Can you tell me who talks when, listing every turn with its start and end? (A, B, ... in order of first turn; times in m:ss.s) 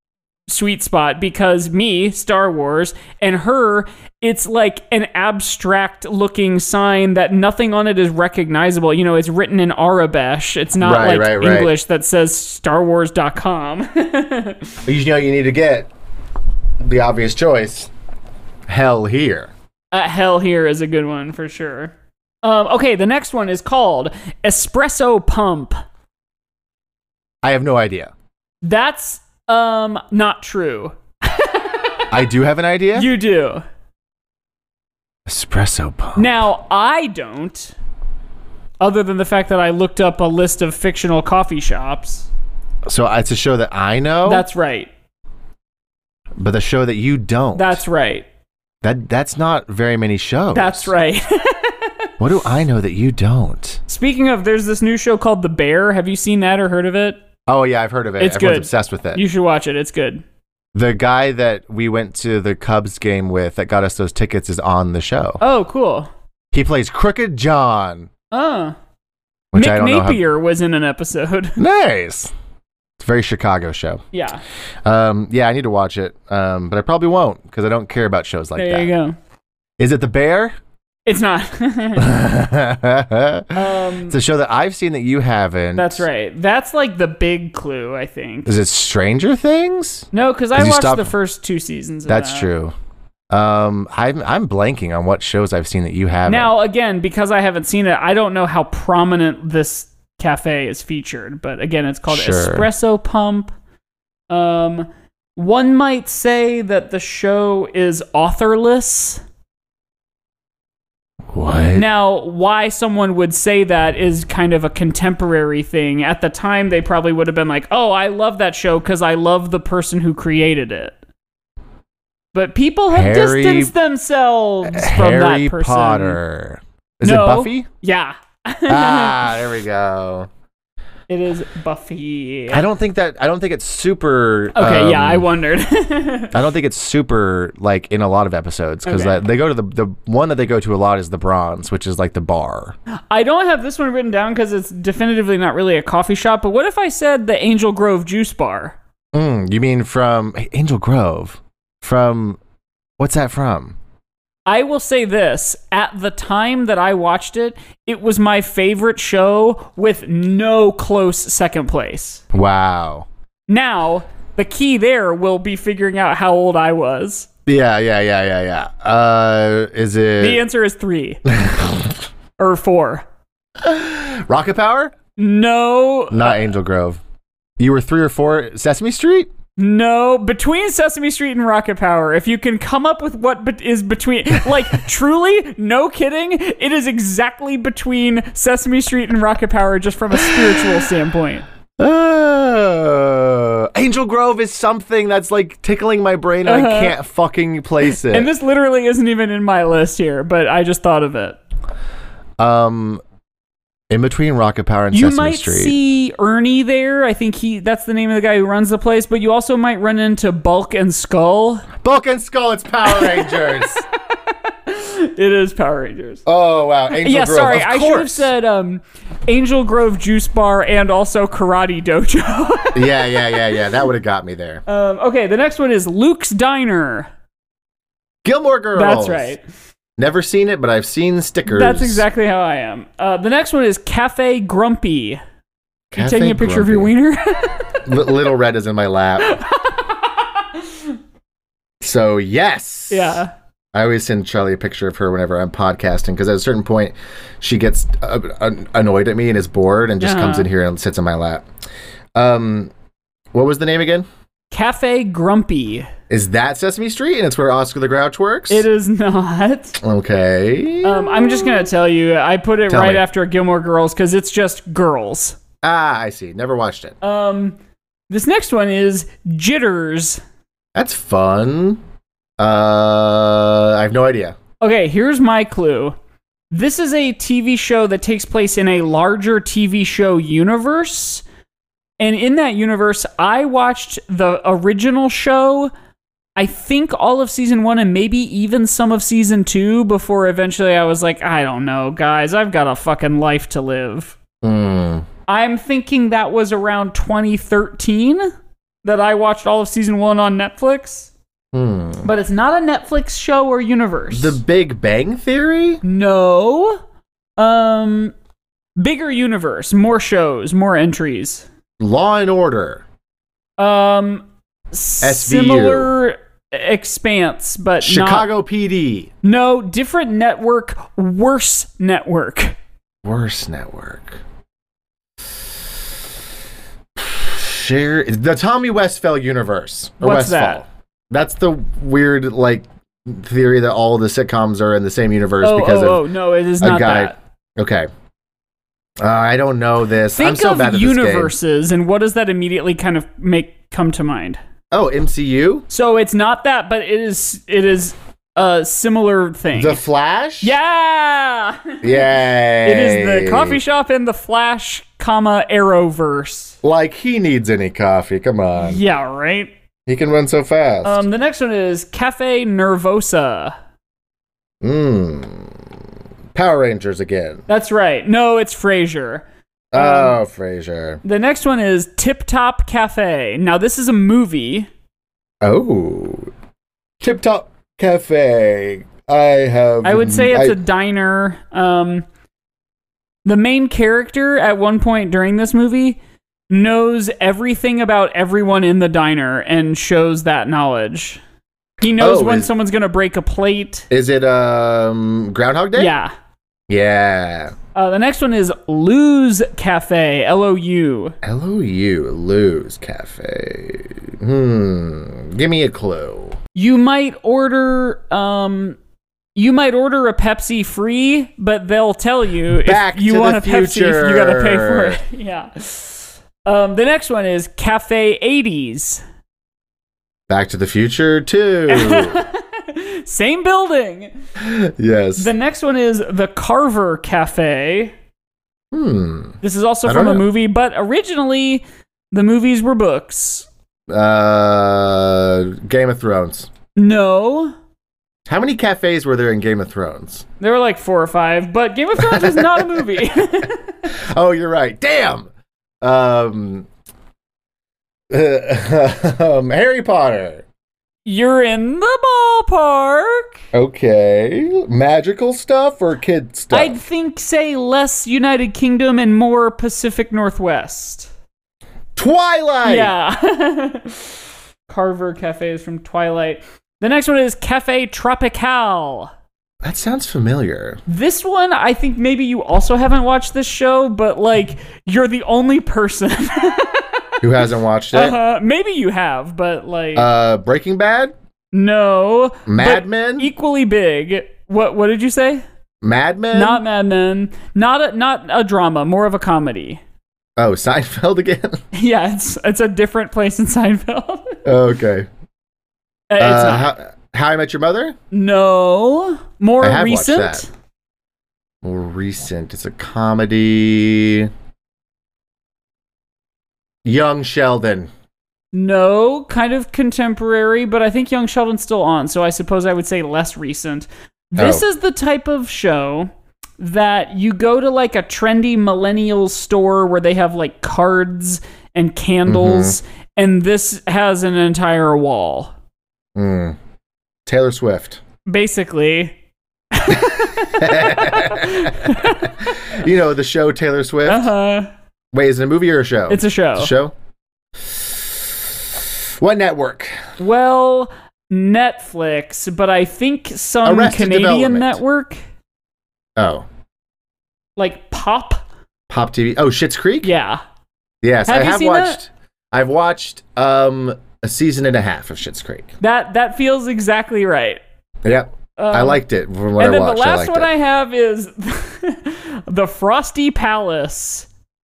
0:00.5-0:14.8 A
0:10.8-0:11.7 B
0:14.8-0:15.9 B
0:16.8-0:17.9 B
0:18.7-0:19.5 B
0:19.9-0:25.8 A
0:27.4-0:28.1 B
0:28.6-0:32.1 A
0:32.1-0:33.1 B
0:32.9-0:33.6 A
0:35.3-0:36.3 B
0:36.2-0:37.7 A
0:38.8-0:42.3 A
0:42.8-0:44.4 B
0:44.2-0:44.9 A
0:46.4-0:47.8 B
0:47.5-0:48.2 A
0:48.8-0:50.9 B
0:50.5-0:52.1 A
0:52.2-0:53.8 B
0:53.9-0:57.2 A
0:57.5-0:59.2 B
0:58.2-1:00.2 A
1:00.7-1:05.4 B
1:05.4-1:06.1 A
1:06.5-1:08.1 B
1:08.3-1:08.8 A
1:09.5-1:10.2 B
1:09.6-1:11.6 A
1:11.6-1:12.3 B
1:13.0-1:14.0 B
1:14.1-1:14.4 A
1:14.8-1:18.9 B
1:18.6-1:19.2 A
1:19.8-1:20.5 B
1:21.0-1:22.1 A
1:22.0-1:26.0 B
1:23.5-1:24.2 A
1:25.8-1:28.5 A
1:28.4-1:31.1 B
1:30.1-1:32.5 A
1:32.1-1:32.7 B
1:33.3-1:36.5 B
1:36.2-1:43.5 A
1:42.1-1:42.7 B
1:44.3-1:49.2 A
1:51.3-1:51.8 B
1:51.7-2:01.0 A
2:02.3-2:06.2 A
2:02.9-2:03.7 B
2:04.6-2:07.7 B
2:07.0-2:09.2 A
2:08.7-2:10.3 B
2:11.1-2:12.6 A
2:12.5-2:15.3 B
2:14.5-2:16.4 A
2:16.3-2:22.8 B
2:18.8-2:19.2 A
2:23.1-2:28.8 A
2:29.1-2:32.4 B
2:33.0-2:33.8 B
2:34.4-2:42.2 A
2:42.3-2:43.1 B
2:43.5-2:47.3 A
2:47.4-2:50.4 B
2:50.2-2:51.2 A
2:51.3-2:52.0 B
2:52.4-2:53.0 A
2:53.6-2:54.9 B
2:55.2-2:56.4 A
2:56.1-2:57.0 B
2:57.6-2:59.3 B
2:59.6-3:11.4 A
3:10.2-3:10.8 B
3:11.8-3:18.3 B
3:16.4-3:17.0 A
3:17.8-3:21.4 A
3:22.4-3:23.0 B
3:23.9-3:25.8 B
3:24.9-3:31.7 A
3:31.8-3:33.8 B
3:32.8-3:36.2 A
3:36.2-3:38.3 B
3:36.9-3:43.6 A
3:42.7-3:44.6 B
3:44.7-3:47.1 A
3:48.2-3:49.3 B
3:48.7-3:49.4 A
3:50.0-3:52.0 B
3:51.5-3:55.2 A
3:55.9-3:56.9 B
3:55.9-3:57.7 A
3:57.8-3:59.4 B
3:59.2-4:00.9 A
4:01.8-4:03.2 B
4:02.9-4:03.3 A
4:03.7-4:11.4 B
4:10.0-4:10.5 A
4:12.1-4:12.7 B
4:13.3-4:14.0 B
4:14.5-4:15.9 A
4:16.1-4:18.6 B
4:18.5-4:19.8 A
4:19.8-4:21.6 B
4:20.8-4:25.4 A
4:22.7-4:23.0 B
4:25.6-4:27.0 B
4:27.0-4:27.6 A
4:28.1-4:30.2 A
4:30.7-4:31.8 B
4:32.4-4:34.4 B
4:34.6-4:36.0 A
4:36.5-4:41.2 A
4:42.0-4:45.7 A
4:46.4-4:54.1 A
4:54.4-4:55.0 B
4:55.3-4:58.3 A
4:58.8-5:01.1 A
5:01.5-5:02.1 B
5:02.0-5:04.4 A
5:04.1-5:05.8 B
5:05.8-5:06.8 A
5:07.4-5:08.1 A
5:08.8-5:11.4 A
5:11.8-5:12.8 B
5:13.6-5:18.3 A
5:15.0-5:15.9 B
5:17.8-5:19.1 B
5:19.2-5:22.6 A
5:23.0-5:24.2 B
5:27.0-5:36.0 B
5:30.0-5:30.6 A
5:35.4-5:37.2 A
5:36.6-5:37.9 B
5:39.0-5:41.3 B
5:40.1-5:44.4 A
5:44.7-5:45.6 B
5:45.7-5:49.8 A
5:49.5-5:50.6 B
5:50.4-5:56.6 A
5:51.8-5:53.6 B
5:56.6-5:58.8 B
5:58.6-5:59.5 A
5:59.9-6:01.0 B
6:00.8-6:03.5 A
6:04.6-6:05.6 B
6:06.3-6:07.4 B
6:07.5-6:10.2 A
6:09.7-6:11.0 B
6:11.0-6:14.7 A
6:15.4-6:16.3 B
6:17.0-6:20.6 B
6:19.8-6:22.0 A
6:23.2-6:26.0 A
6:26.5-6:31.2 A
6:31.8-6:33.9 A
6:32.0-6:32.5 B
6:33.9-6:35.9 B
6:35.7-6:36.1 A
6:36.7-6:37.5 B
6:37.7-6:41.2 A
6:41.2-6:46.4 B
6:46.5-6:48.8 A
6:49.4-6:59.0 A
6:52.5-6:55.0 B
7:00.3-7:02.2 B
7:01.7-7:04.1 A
7:04.4-7:05.3 B
7:05.2-7:07.9 A
7:08.7-7:10.3 B
7:09.4-7:13.5 A
7:13.9-7:16.5 B
7:16.8-7:17.5 A
7:18.3-7:20.2 B
7:20.4-7:23.9 A
7:22.0-7:22.8 B
7:23.9-7:25.3 B
7:25.8-7:26.7 B
7:28.1-7:30.4 B
7:31.0-7:33.4 A
7:33.5-7:36.8 B
7:36.5-7:41.1 A
7:42.0-7:42.9 B
7:42.6-7:49.1 A
7:49.6-7:50.8 B
7:50.9-7:57.2 A
7:57.2-7:58.2 B
7:57.9-8:00.1 A
7:59.9-8:01.1 B
8:01.5-8:05.4 A
8:02.5-8:03.3 B
8:05.8-8:06.6 B
8:06.3-8:09.8 A
8:10.4-8:11.6 B
8:11.7-8:14.5 A
8:14.4-8:15.1 B
8:16.1-8:16.7 A
8:16.2-8:17.9 B
8:18.1-8:20.5 A
8:19.6-8:20.4 B
8:21.6-8:24.3 B
8:26.8-8:27.9 B
8:28.5-8:45.5 A
8:34.4-8:34.6 B
8:42.2-8:42.8 B
8:46.1-8:46.6 B
8:47.2-8:48.0 B
8:48.2-8:49.2 A
8:49.7-8:52.4 A
8:50.6-8:54.3 B
8:54.0-8:54.7 A
8:55.1-8:56.9 B
8:56.1-8:56.7 A
8:57.7-8:58.2 B
8:59.2-9:00.0 B
9:00.2-9:05.2 A
9:03.6-9:04.8 B
9:06.2-9:06.5 B
9:07.6-9:08.4 A
9:08.9-9:10.1 B
9:10.0-9:10.4 A
9:11.0-9:15.7 B
9:11.2-9:12.0 A
9:15.8-9:17.6 A
9:18.0-9:20.5 B
9:18.6-9:19.0 A
9:19.6-9:24.3 A